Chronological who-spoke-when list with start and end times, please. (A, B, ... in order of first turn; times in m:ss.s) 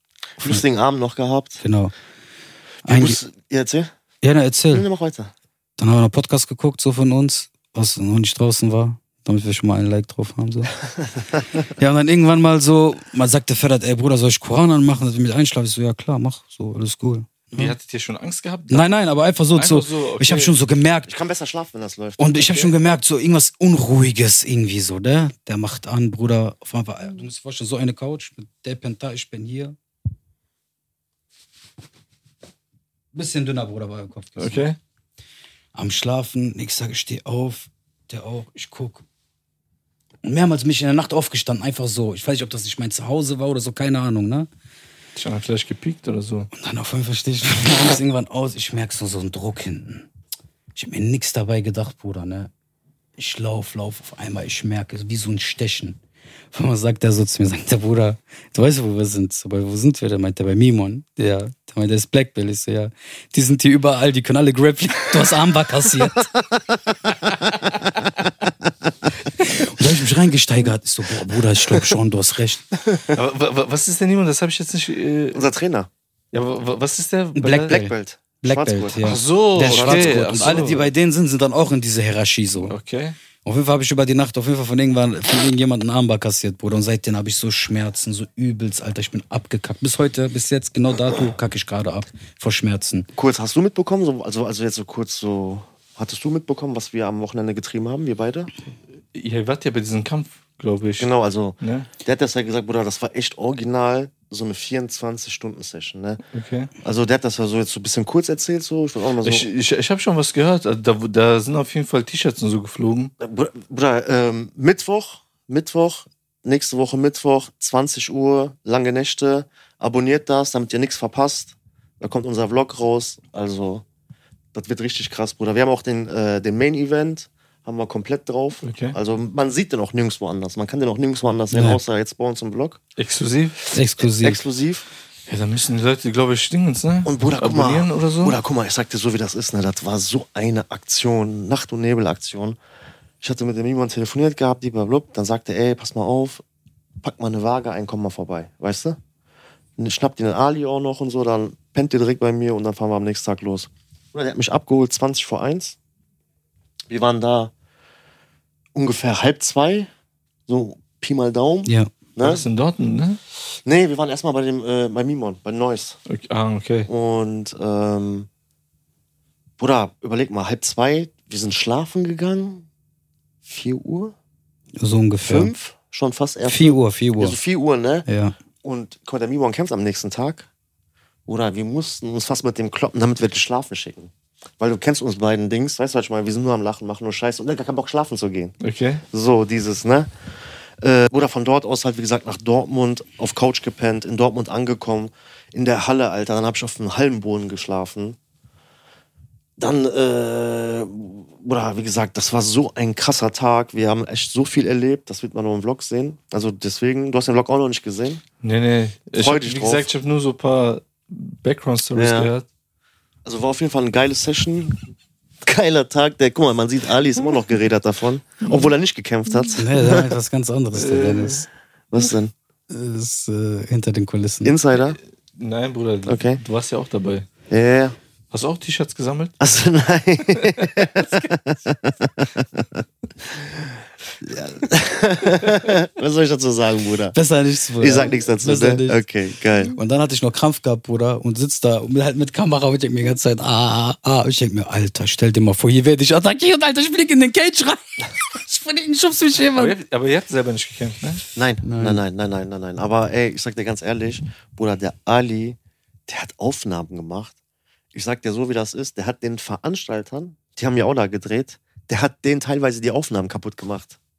0:00.4-0:01.6 A
0:01.6-0:01.9 B
0:02.8-0:03.2 B
0:02.8-0:03.9 A
0:04.2-0:04.9 B
0:04.7-0:05.3 A
0:05.8-0:10.7 B
0:11.8-0:17.5 B
0:17.5-0:18.9 C
0:18.7-0:21.1 B
0:19.5-0:20.5 C
0:21.0-0:22.7 A
0:22.2-0:29.8 B
0:33.1-0:34.6 B
0:34.4-0:34.8 C
0:35.7-0:39.0 B
0:40.2-0:44.5 B
0:45.2-0:46.5 C
0:46.5-0:50.1 B
0:50.7-0:52.5 B
0:53.2-0:56.0 B
0:56.5-1:06.3 B
1:09.4-1:12.6 B
1:12.9-1:13.2 A
1:13.1-1:15.5 C
1:15.3-1:15.9 A
1:16.3-1:17.8 C
1:17.3-1:22.8 B
1:17.7-1:20.2 A
1:19.0-1:20.9 C
1:22.7-1:23.2 C
1:23.4-1:33.1 B
1:33.1-1:38.5 A
1:39.1-1:41.9 C
1:41.0-1:46.2 A
1:46.3-1:46.7 C
1:46.8-1:49.4 A
1:49.2-1:53.1 C
1:53.2-2:03.8 A
2:04.5-2:12.8 A
2:08.6-2:09.0 C
2:11.5-2:11.8 B
2:13.0-2:13.6 C
2:13.7-2:14.4 B
2:14.0-2:14.8 A
2:15.3-2:18.4 C
2:17.0-2:22.6 A
2:23.2-2:26.4 A
2:27.0-2:29.0 A
2:29.8-2:35.8 A
2:36.9-2:37.5 A
2:38.7-2:39.9 A
2:40.5-2:42.4 A
2:41.6-2:41.9 B
2:42.2-2:43.2 C
2:43.6-2:46.0 A
2:46.1-2:46.9 C
2:46.9-2:48.3 A
2:49.6-2:52.6 A
2:53.4-2:54.1 A
2:54.8-2:55.5 B
2:55.2-2:58.1 A
2:56.4-2:57.4 B
2:58.0-2:58.3 B
2:58.6-3:00.5 A
3:01.2-3:08.5 A
3:08.6-3:09.0 C
3:09.1-3:10.1 A
3:10.8-3:18.2 A
3:19.6-3:28.2 A
3:28.4-3:32.4 C
3:29.1-3:29.9 A
3:31.9-3:32.3 A
3:33.2-3:34.8 A
3:35.4-3:40.1 A
3:38.4-3:38.7 C
3:39.6-3:41.4 B
3:40.7-3:41.4 C
3:41.9-3:42.3 A
3:42.7-3:44.6 B
3:44.4-3:45.0 A
3:45.4-3:47.3 C
3:46.0-3:46.4 A
3:47.5-3:48.0 A
3:48.3-3:49.3 C
3:49.4-3:57.2 A
3:50.6-3:50.9 C
3:57.1-3:59.0 B
3:57.8-3:59.8 A
3:59.7-4:09.7 B
4:09.5-4:11.2 C
4:11.3-4:17.3 A
4:11.6-4:12.0 B
4:17.9-4:24.0 A